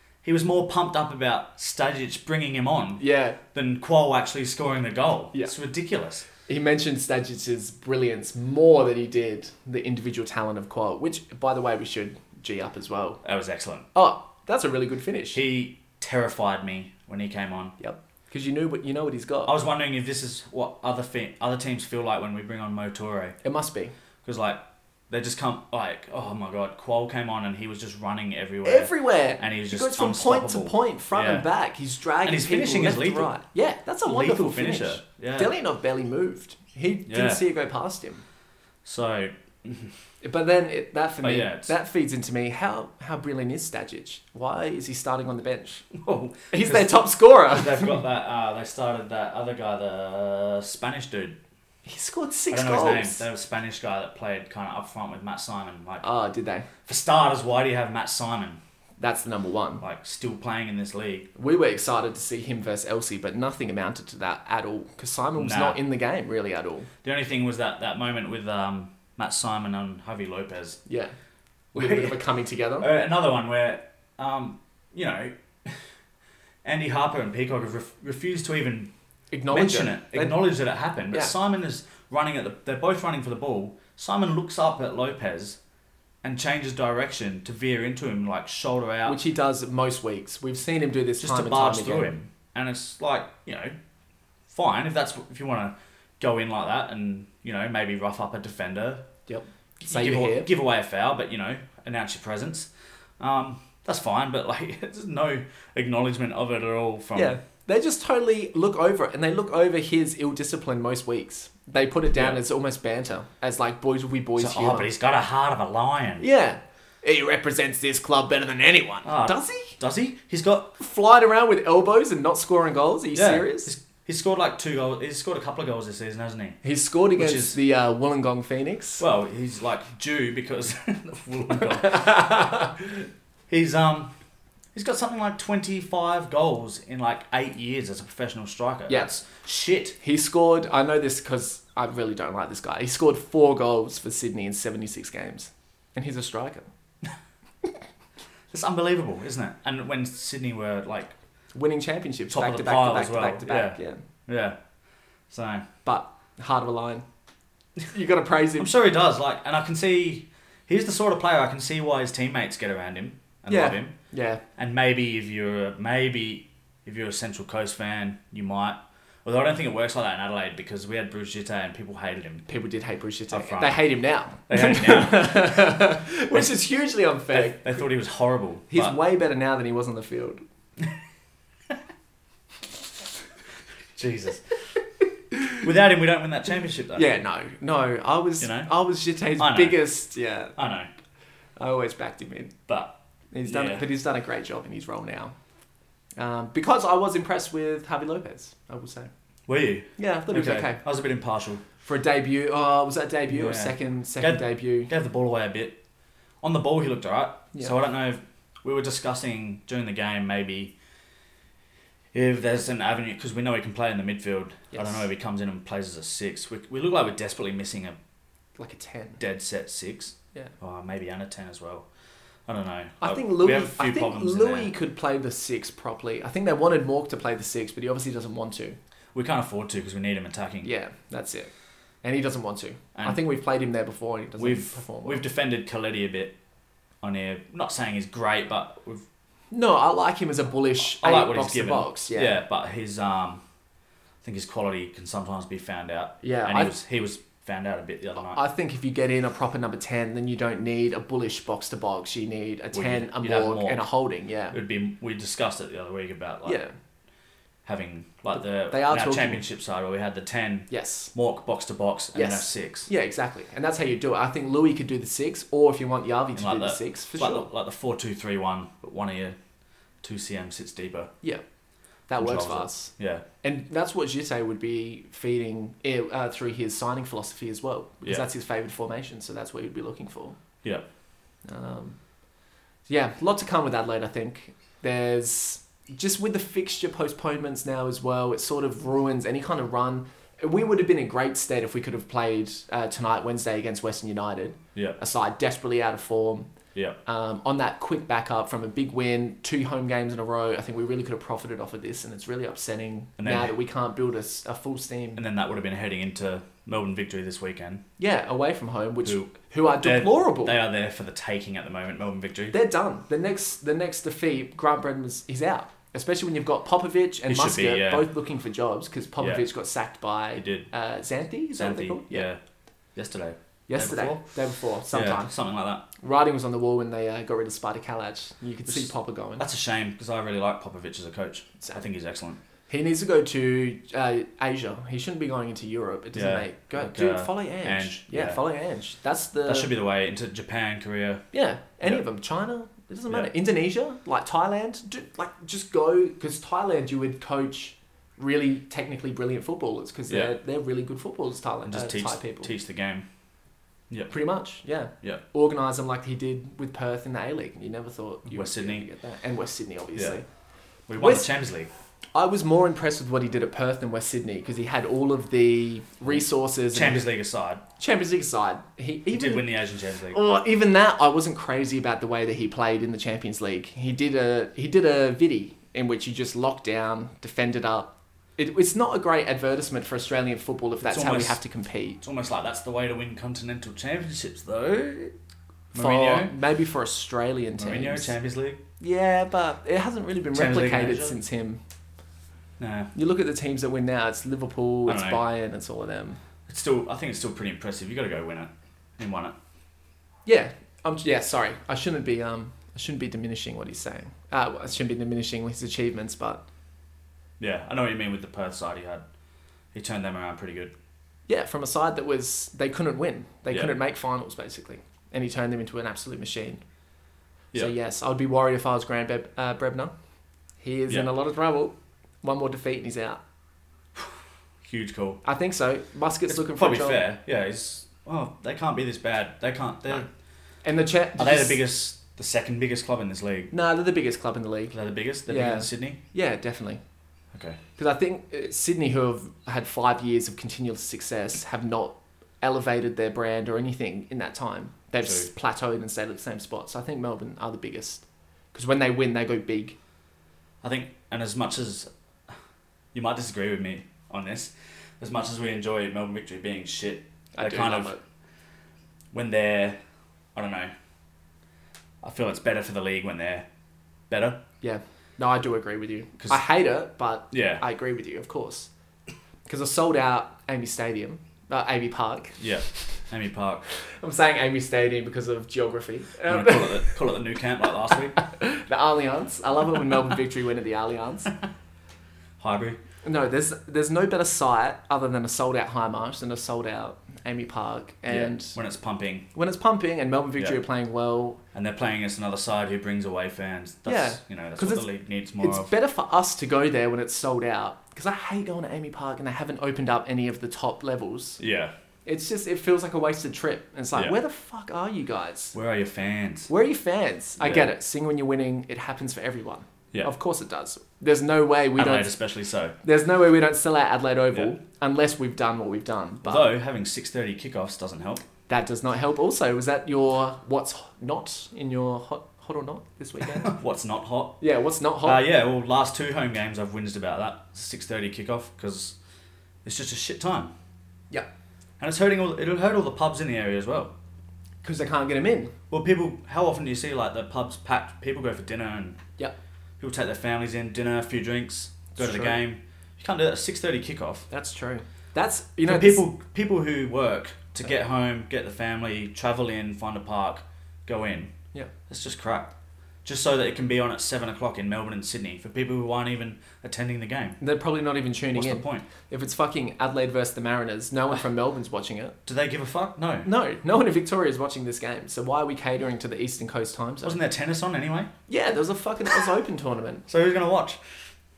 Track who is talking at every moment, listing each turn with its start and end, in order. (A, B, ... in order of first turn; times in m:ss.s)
0:00.2-0:03.0 A
0:03.0-0:03.4 B
0:03.5-0:06.3 A
0:06.4-0:13.2 B
0:13.2-0:13.9 A
0:13.9-0:15.4 B
0:15.3-0:17.7 A
0:17.8-0:19.6 B
0:19.4-0:23.4 A
0:23.4-0:23.9 B
0:24.2-0:31.5 A
0:28.6-0:38.2 B
0:32.2-0:33.3 A
0:34.0-0:35.5 A
0:37.1-0:37.4 A
0:38.8-0:39.9 A
0:40.2-0:45.9 B
0:41.2-0:41.7 A
0:45.9-0:47.0 A
0:46.5-0:48.0 B
0:47.5-0:51.4 A
0:51.8-0:53.3 B
0:52.5-0:56.0 A
0:56.0-0:56.7 B
0:56.8-0:58.6 A
0:59.0-0:59.8 B
0:59.8-1:01.3 A
1:01.4-1:06.9 B
1:05.4-1:05.8 A
1:07.0-1:10.8 A
1:10.8-1:11.1 B
1:11.7-1:12.9 B
1:11.7-1:12.2 A
1:12.8-1:15.9 A
1:16.6-1:18.9 A
1:19.3-1:20.4 B
1:19.5-1:25.6 A
1:26.2-1:29.2 A
1:29.0-1:32.2 B
1:31.2-1:33.8 A
1:34.5-1:39.1 A
1:39.3-1:40.5 B
1:39.9-1:47.4 A
1:47.1-1:54.9 B
1:52.1-1:52.4 A
1:54.4-1:56.2 A
1:56.2-1:59.8 B
1:59.0-2:00.8 A
2:00.8-2:03.7 B
2:03.1-2:06.6 A
2:06.6-2:09.0 B
2:07.2-2:07.6 A
2:09.0-2:12.0 A
2:11.5-2:13.0 B
2:13.5-2:14.1 A
2:14.7-2:20.0 A
2:20.0-2:26.7 B
2:28.5-2:31.1 A
2:31.5-2:34.0 B
2:32.3-2:34.6 A
2:35.3-2:35.6 A
2:35.8-2:37.0 B
2:37.9-2:38.7 B
2:38.6-2:43.9 A
2:43.5-2:44.4 B
2:44.6-2:52.5 A
2:52.5-2:57.8 B
2:53.3-2:53.8 A
2:54.5-2:55.5 A
2:57.3-2:59.0 A
2:58.7-3:00.4 B
3:03.9-3:04.4 A
3:05.3-3:05.6 B
3:05.6-3:07.1 A
3:06.9-3:10.5 B
3:08.4-3:08.7 A
3:09.4-3:09.8 A
3:10.6-3:10.9 A
3:11.6-3:12.5 B
3:13.3-3:15.4 B
3:13.4-3:13.8 A
3:16.2-3:19.1 B
3:19.5-3:21.6 A
3:20.0-3:20.8 B
3:21.8-3:24.9 B
3:23.3-3:25.8 A
3:26.4-3:30.7 A
3:32.1-3:38.0 A
3:34.7-3:35.0 B
3:38.6-3:39.2 B
3:39.2-3:41.9 A
3:42.5-3:44.7 A
3:43.0-3:48.8 B
3:49.1-3:50.7 A
3:50.6-3:51.5 B
3:52.0-3:55.2 B
3:52.9-3:53.2 A
3:54.4-3:56.4 A
3:57.0-3:59.0 A
3:59.5-4:02.4 B
4:00.9-4:03.4 A
4:04.2-4:08.4 A
4:06.2-4:06.8 B
4:08.3-4:14.6 B
4:12.7-4:13.8 A
4:14.5-4:16.6 A
4:16.4-4:16.7 B
4:17.6-4:22.9 A
4:18.3-4:19.4 B
4:20.7-4:21.1 B
4:22.1-4:27.5 B
4:26.3-4:29.4 A
4:30.0-4:31.1 A
4:32.1-4:40.4 B
4:32.2-4:33.2 A
4:41.4-4:42.0 B
4:42.9-4:56.5 B
4:57.0-5:05.2 B
5:03.2-5:03.5 A
5:05.2-5:07.8 A
5:08.0-5:10.6 B
5:09.0-5:12.5 A
5:12.5-5:22.3 B
5:17.3-5:18.1 A
5:19.2-5:19.4 A
5:20.4-5:20.7 A
5:21.6-5:22.4 A
5:22.9-5:24.2 A
5:23.7-5:25.3 B
5:24.9-5:25.8 A
5:26.0-5:29.4 B
5:28.6-5:32.4 A
5:32.7-5:39.7 B
5:36.1-5:38.4 A
5:39.4-5:41.2 A
5:41.3-5:52.5 B
5:50.1-5:50.3 A
5:51.7-5:53.0 A
5:54.1-6:00.2 B
5:58.2-5:58.8 A
6:00.9-6:01.7 A
6:01.0-6:01.3 B
6:02.1-6:07.1 B
6:06.1-6:07.6 A
6:07.8-6:09.5 B
6:09.1-6:10.2 A
6:10.1-6:22.0 B
6:20.8-6:21.4 A
6:22.0-6:25.1 A
6:25.7-6:26.3 A
6:25.8-6:28.1 B
6:27.6-6:28.6 A
6:28.8-6:31.6 B
6:30.3-6:31.2 A
6:32.6-6:32.9 A
6:32.9-6:36.2 B
6:34.9-6:35.2 A
6:36.5-6:39.4 A
6:40.2-6:46.4 B
6:47.4-6:49.0 A
6:49.7-6:50.7 A
6:51.3-6:56.6 B
6:53.5-6:53.8 A
6:57.5-6:59.9 B
7:00.6-7:03.2 B
7:04.6-7:05.2 A
7:05.2-7:07.0 B
7:06.3-7:10.1 A
7:10.6-7:11.6 B
7:11.2-7:13.5 A
7:13.5-7:14.8 B
7:14.7-7:16.0 A
7:15.3-7:16.8 B
7:17.3-7:17.6 A
7:17.8-7:29.8 B
7:25.0-7:25.3 A
7:30.6-7:31.9 A
7:32.9-7:37.9 A
7:37.4-7:38.0 B
7:39.1-7:39.8 A
7:40.3-7:40.7 A
7:42.0-7:43.5 A
7:44.1-7:44.4 A
7:44.6-7:48.7 B
7:47.3-7:47.6 A
7:49.4-7:53.0 B
7:52.4-7:53.6 A
7:53.8-7:57.2 B
7:56.3-7:58.2 A
7:57.9-8:01.3 B
8:02.4-8:02.8 A
8:03.0-8:08.5 B
8:08.1-8:09.3 A
8:09.3-8:11.4 B
8:11.5-8:15.7 A
8:13.8-8:14.9 B
8:15.4-8:21.4 B
8:21.4-8:21.7 A
8:22.0-8:25.5 B
8:25.5-8:26.5 A
8:26.5-8:32.1 B
8:27.4-8:27.7 A
8:31.8-8:32.8 A
8:32.8-8:36.5 B
8:36.2-8:38.2 A
8:38.5-8:43.6 B
8:43.3-8:44.4 A
8:44.4-8:45.2 B
8:45.0-8:49.0 A
8:49.6-8:50.5 A
8:51.8-8:53.9 A
8:54.6-8:55.5 B
8:55.7-8:59.0 A
8:59.8-9:04.3 A
9:02.0-9:02.4 B
9:04.3-9:06.0 B
9:05.6-9:11.3 A
9:11.9-9:17.4 A
9:17.4-9:22.2 B
9:18.3-9:18.8 A
9:22.2-9:23.3 A
9:23.2-9:27.2 B
9:27.0-9:28.1 A
9:28.3-9:30.0 B
9:30.1-9:30.8 A